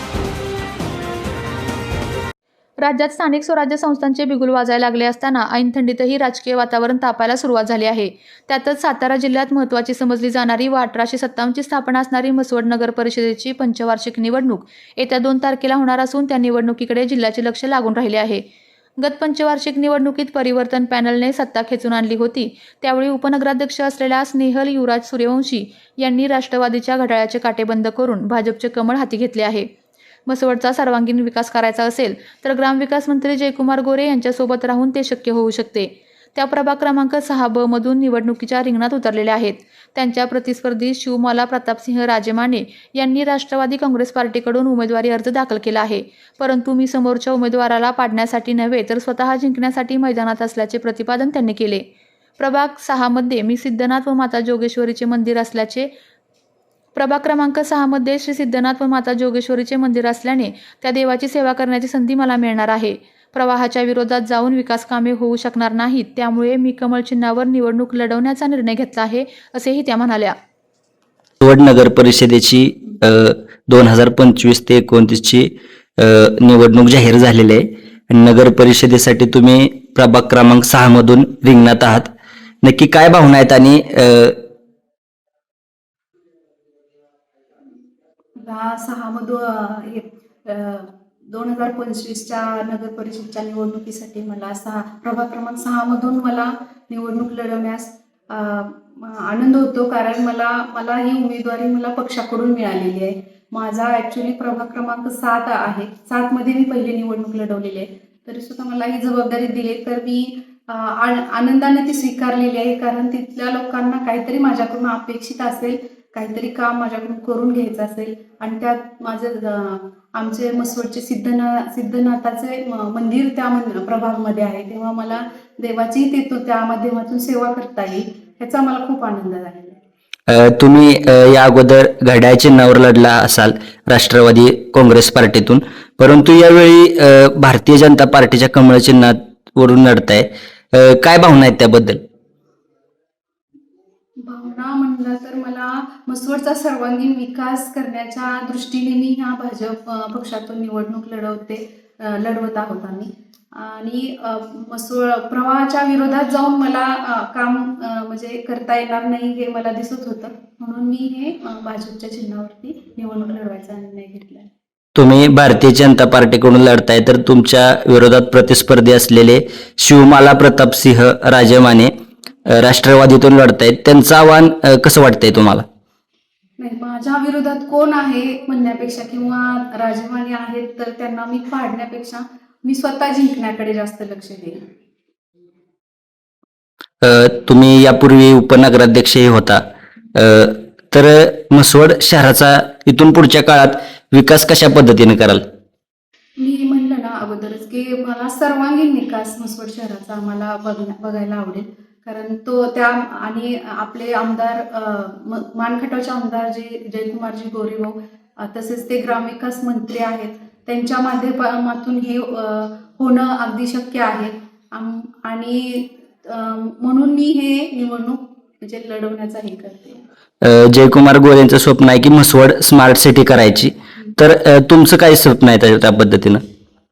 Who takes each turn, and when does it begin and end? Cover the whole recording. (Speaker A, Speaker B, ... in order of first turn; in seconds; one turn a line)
Speaker A: 2.8-18.4
Speaker A: 19.0-29.7
Speaker A: 30.2-51.8
Speaker A: 52.4-55.9
Speaker A: 57.0-70.3
Speaker B: 71.4-82.1
Speaker B: 82.6-84.4
Speaker C: 88.4-129.8
Speaker B: 130.3-142.0
Speaker C: 144.2-164.5
Speaker B: 164.9-171.9
Speaker B: 172.5-175.6
Speaker C: 176.6-184.6
Speaker B: 187.0-189.6
Speaker B: 190.1-195.4
Speaker C: 196.4-220.0
Speaker B: 220.4-226.4